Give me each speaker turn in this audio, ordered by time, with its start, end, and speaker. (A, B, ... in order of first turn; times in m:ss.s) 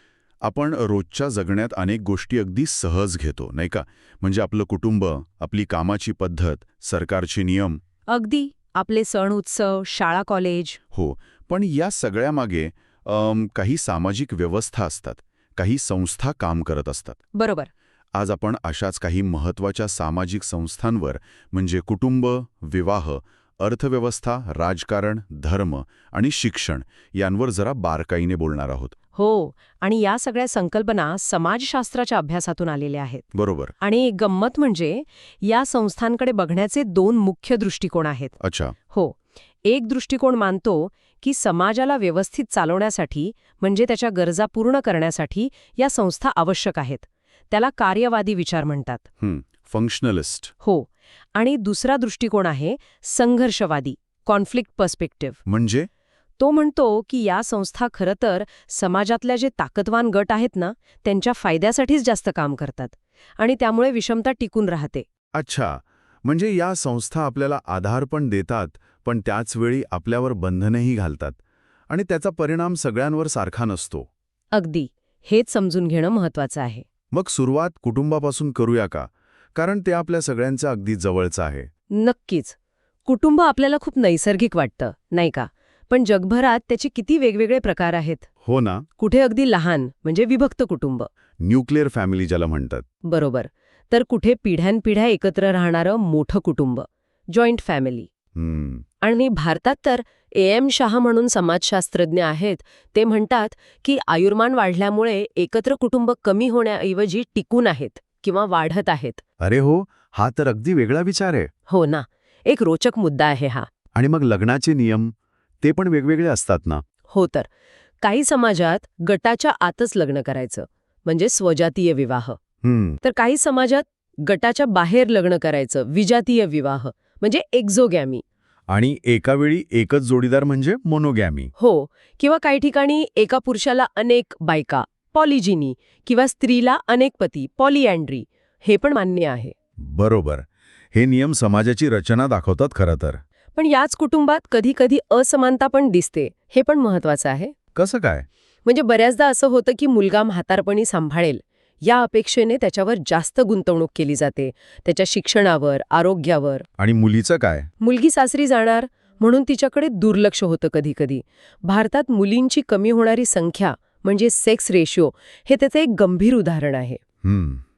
0:00.4-0:07.8 A
0:08.1-0:10.8 B
0:10.9-0:17.2 A
0:17.3-0:17.7 B
0:18.1-0:28.9 A
0:29.1-0:33.2 B
0:33.3-0:33.7 A
0:33.8-0:38.3 B
0:38.4-0:38.7 A
0:38.9-0:49.0 B
0:49.2-0:50.5 A
0:50.6-0:55.4 B
0:55.4-0:55.9 A
0:56.4-1:05.1 B
1:05.3-1:11.4 A
1:11.9-1:14.1 A
1:14.5-1:16.8 B
1:17.1-1:21.7 A
1:21.9-1:28.3 B
1:28.4-1:28.8 A
1:29.0-1:31.1 B
1:31.4-1:32.8 A
1:33.0-1:38.1 B
1:38.3-1:38.8 A
1:39.0-1:49.2 B
1:49.4-1:51.5 A
1:51.7-1:53.7 B
1:53.9-1:56.8 A
1:57.1-1:57.5 B
1:58.0-2:02.4 B
2:02.6-2:03.0 A
2:03.0-2:08.2 B
2:08.7-2:11.5 A
2:11.6-2:19.5 B
2:19.8-2:23.2 A
2:23.6-2:27.5 B
2:27.7-2:28.2 A
2:28.6-2:36.6 B
2:36.8-2:37.7 A
2:37.8-2:47.0 B
2:47.2-2:47.6 A